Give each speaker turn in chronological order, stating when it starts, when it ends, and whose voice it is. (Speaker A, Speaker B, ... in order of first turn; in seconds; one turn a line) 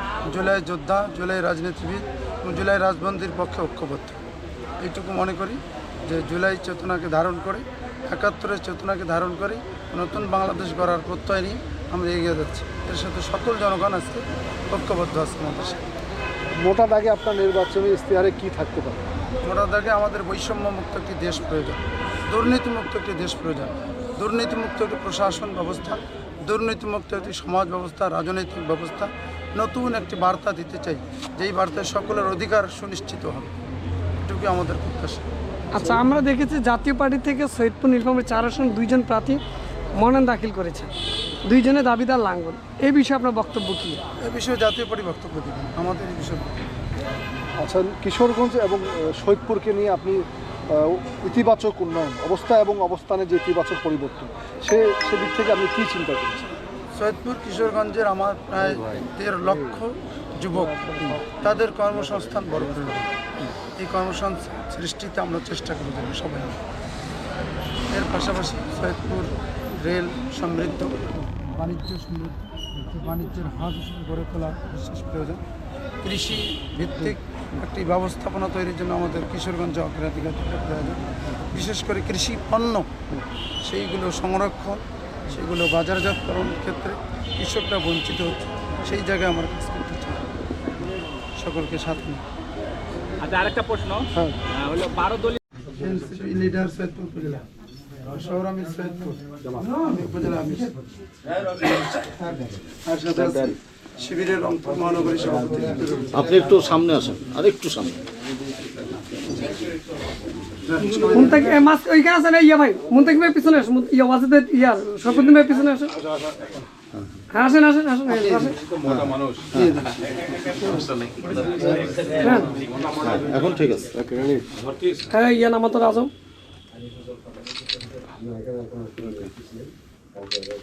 Speaker A: 0.3-4.2
Speaker A: 4.8-15.9
Speaker B: 16.6-19.0
Speaker A: 19.4-33.5
Speaker A: 34.2-35.3
Speaker C: 35.7-39.4
Speaker C: 40.0-40.9
Speaker C: 41.5-44.0
Speaker A: 44.2-46.6
Speaker B: 47.6-56.5
Speaker A: 57.0-63.1
Speaker A: 63.8-66.6
Speaker A: 67.9-75.4
Speaker A: 76.0-83.0
Speaker A: 83.7-90.2
Speaker A: 91.4-92.2
Speaker D: 93.2-95.4
Speaker A: 95.7-97.5
Speaker A: 98.0-100.7
Speaker A: 101.5-106.2
Speaker E: 106.1-108.0
Speaker A: 110.7-111.6
Speaker C: 111.1-116.0
Speaker D: 116.1-116.5
Speaker C: 117.3-118.6
Speaker A: 118.1-118.5
Speaker D: 118.7-119.5
Speaker E: 118.8-119.8
Speaker A: 119.6-119.9
Speaker D: 120.8-122.9
Speaker C: 122.2-122.5
Speaker E: 122.9-124.0
Speaker D: 124.6-125.0
Speaker C: 125.1-126.1